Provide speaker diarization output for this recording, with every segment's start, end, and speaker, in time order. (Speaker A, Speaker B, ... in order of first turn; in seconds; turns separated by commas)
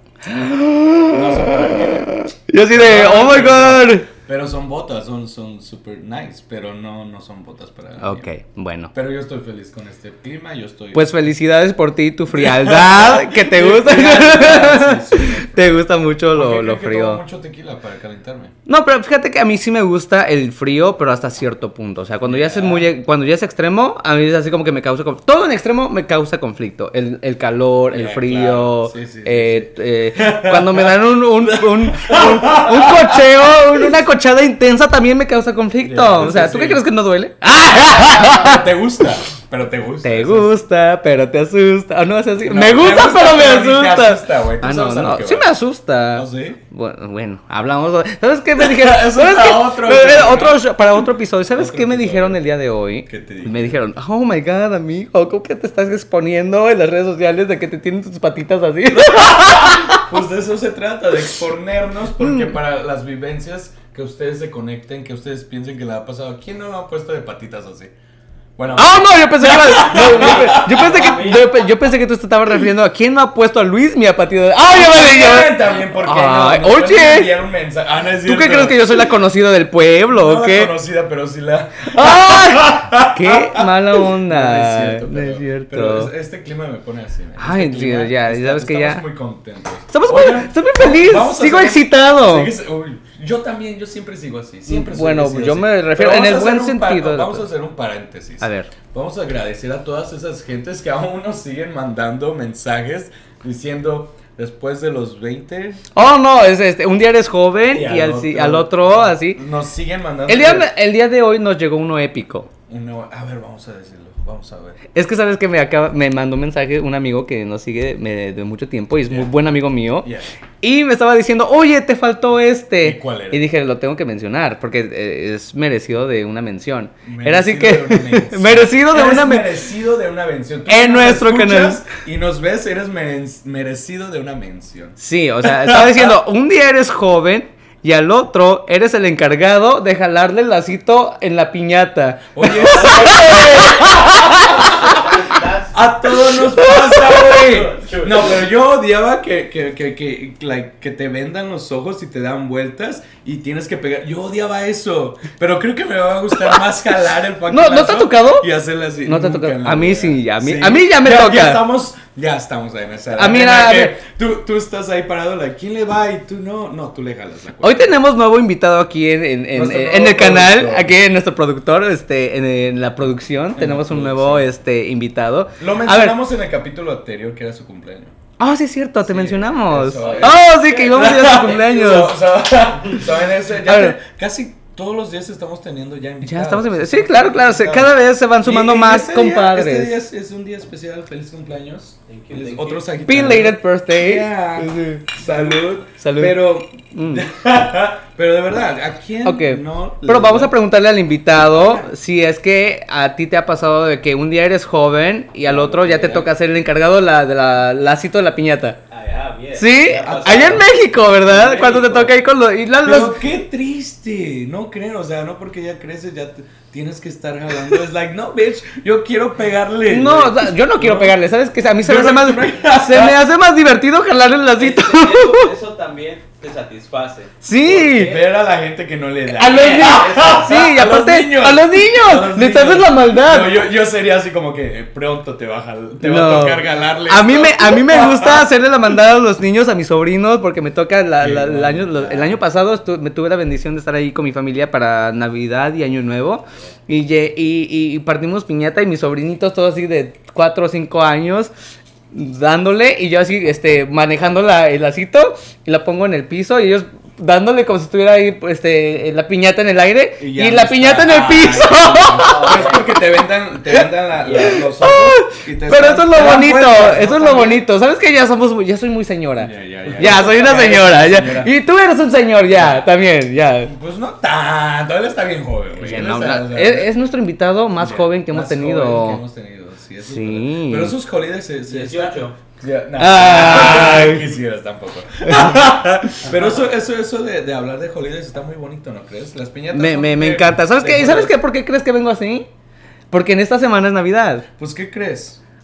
Speaker A: 0.2-4.1, Speaker B: 1.1-2.1, Speaker B: 2.7-8.3, Speaker A: 8.0-8.9, Speaker B: 8.9-11.1, Speaker A: 10.9-17.2, Speaker B: 12.3-18.5, Speaker A: 18.7-38.6, Speaker B: 22.2-22.9, Speaker B: 27.9-34.0, Speaker B: 35.8-36.9, Speaker B: 37.7-40.5, Speaker A: 40.0-60.0, Speaker B: 42.4-45.5, Speaker B: 46.1-46.6, Speaker B: 48.6-50.6, Speaker B: 51.5-52.4, Speaker B: 53.1-53.8, Speaker B: 59.0-67.9, Speaker A: 62.2-62.5, Speaker B: 68.6-71.4, Speaker A: 68.8-77.3, Speaker C: 69.7-71.5, Speaker B: 74.7-79.0, Speaker A: 78.2-80.7, Speaker B: 80.1-105.8, Speaker A: 81.9-86.1, Speaker A: 87.4-89.0, Speaker A: 89.9-92.5, Speaker A: 94.7-97.5, Speaker A: 98.4-98.7, Speaker A: 106.0-109.4, Speaker B: 107.7-110.7, Speaker A: 110.3-112.5, Speaker B: 112.7-114.8, Speaker A: 114.9-120.1, Speaker B: 120.0-120.3, Speaker A: 120.6-129.5, Speaker B: 122.8-123.5, Speaker B: 127.0-136.2, Speaker A: 130.7-131.8, Speaker A: 135.0-144.9, Speaker B: 142.3-145.1, Speaker C: 142.6-145.8, Speaker B: 145.7-168.0, Speaker A: 146.3-147.3, Speaker C: 147.3-148.5, Speaker A: 157.5-158.5, Speaker A: 159.1-161.6, Speaker A: 163.2-164.0, Speaker A: 167.6-176.2, Speaker B: 169.5-171.0, Speaker B: 173.6-174.5, Speaker B: 175.6-178.2, Speaker A: 178.4-182.2, Speaker B: 179.0-200.6, Speaker C: 179.9-180.4, Speaker A: 183.7-184.0, Speaker A: 186.2-190.0, Speaker C: 192.1-192.9, Speaker A: 193.0-195.3, Speaker A: 195.9-196.4, Speaker A: 196.9-197.2, Speaker A: 199.2-208.8, Speaker B: 201.3-201.9, Speaker B: 205.5-206.3, Speaker C: 208.9-212.1, Speaker A: 209.6-213.2, Speaker B: 210.0-210.7, Speaker B: 212.8-221.2, Speaker A: 219.9-225.5, Speaker B: 221.8-223.2, Speaker C: 224.6-228.3, Speaker A: 227.4-228.2, Speaker B: 227.9-238.5, Speaker A: 229.4-233.6, Speaker C: 229.4-230.5, Speaker A: 236.0-251.5, Speaker B: 241.2-242.4, Speaker A: 252.1-262.7, Speaker B: 260.2-267.7, Speaker C: 262.1-262.9, Speaker A: 263.7-273.7, Speaker B: 269.4-271.5, Speaker B: 272.5-272.9, Speaker B: 273.6-276.9, Speaker A: 275.8-279.2, Speaker B: 277.8-291.4, Speaker A: 280.0-280.9, Speaker C: 281.7-282.4, Speaker A: 283.0-284.3, Speaker C: 283.7-284.1, Speaker A: 285.3-285.6, Speaker C: 286.2-286.6, Speaker A: 289.7-292.5, Speaker A: 293.1-294.5, Speaker B: 294.6-295.4